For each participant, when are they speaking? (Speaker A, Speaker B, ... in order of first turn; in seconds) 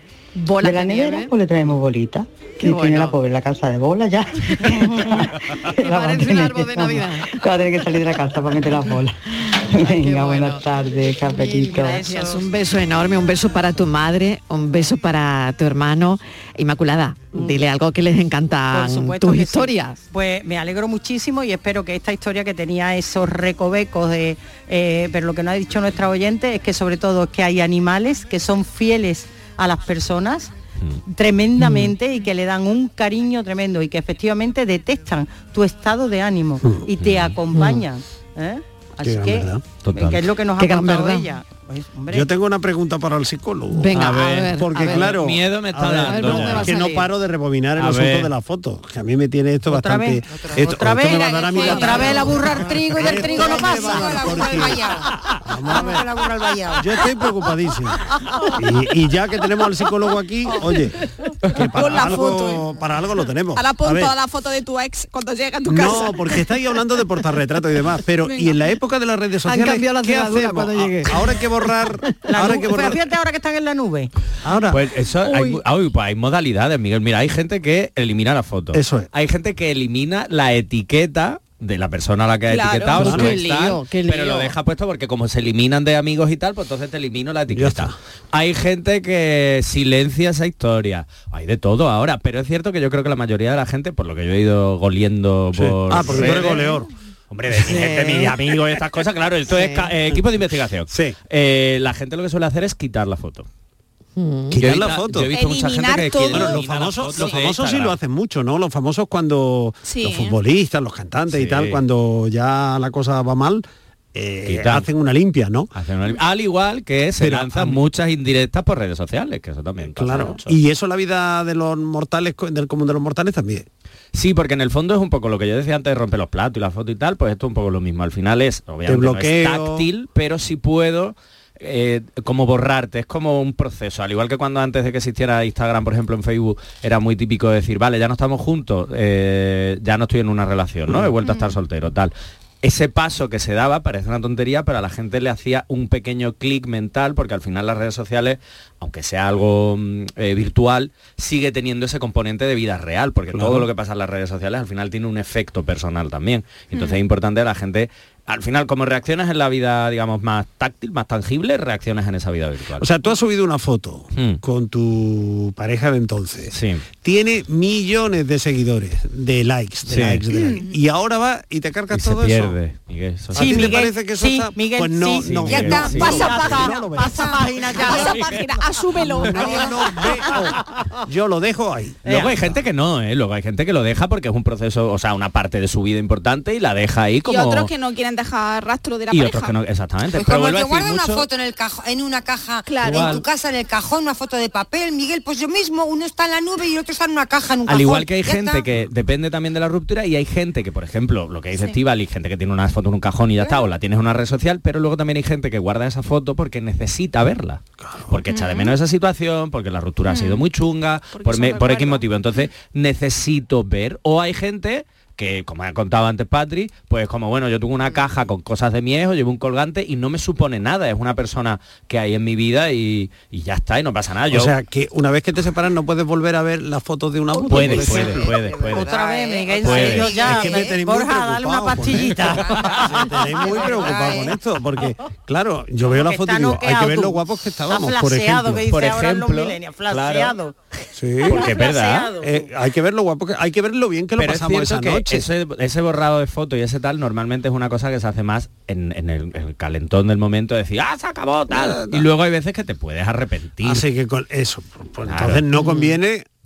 Speaker A: 0.3-1.3, 2.6-3.2, 5.8-7.4, 9.8-10.6, 11.2-20.0, 31.6-31.9, 37.5-37.8, 40.6-41.3, 43.7-45.2, 46.0-47.1, 51.6-52.3, 69.5-71.2, 82.5-84.5, 97.7-98.4, 99.5-99.9, 104.2-104.6, 255.6-255.9
Speaker B: 0.6-12.0
Speaker C: 11.8-12.4, 18.7-30.5, 31.1-42.3, 49.7-54.1, 72.3-74.1, 173.3-178.4, 182.1-182.4, 228.7-234.2, 235.9-240.6, 241.3-242.5
Speaker D: 37.0-37.4, 39.8-40.3, 43.9-46.8, 47.8-48.3, 74.7-96.7, 97.3-103.5, 104.6-108.0, 111.3-111.8, 114.5-114.9, 115.7-120.6, 124.1-162.9, 164.2-164.4, 166.5-166.8, 169.9-170.2, 171.9-173.8, 175.2-176.5, 182.1-187.7, 189.1-191.3, 192.8-193.2, 197.7-224.6, 227.5-228.9, 229.5-230.2, 238.7-240.4, 241.3-242.2, 244.2-253.8, 255.1-255.4
Speaker E: 39.0-39.6, 42.1-56.1, 56.7-61.0, 61.5-64.1, 65.7-73.0, 74.4-74.8, 78.7-79.1, 82.9-83.4, 87.5-88.0, 95.5-96.9, 100.9-101.2, 104.5-105.4, 106.3-115.7, 117.2-117.8, 120.0-123.7, 128.9-129.9, 153.3-153.7, 162.8-172.6, 173.3-177.4, 179.0-182.6, 207.9-208.2, 224.3-228.3, 230.1-238.7, 240.9-241.6, 242.2-245.3, 251.5-252.1, 253.6-256.3
Speaker F: 52.7-55.1, 55.7-57.0, 175.5-176.4, 190.1-198.7, 227.5-230.7, 233.3-234.2
Speaker G: 61.7-62.7, 63.6-66.5, 68.2-68.5, 105.3-106.6, 109.8-110.3, 141.3-141.6, 156.7-157.0, 170.3-170.6, 176.1-176.7, 177.8-180.4, 187.2-189.5, 192.7-193.2, 208.3-208.7, 210.1-210.5, 211.1-212.5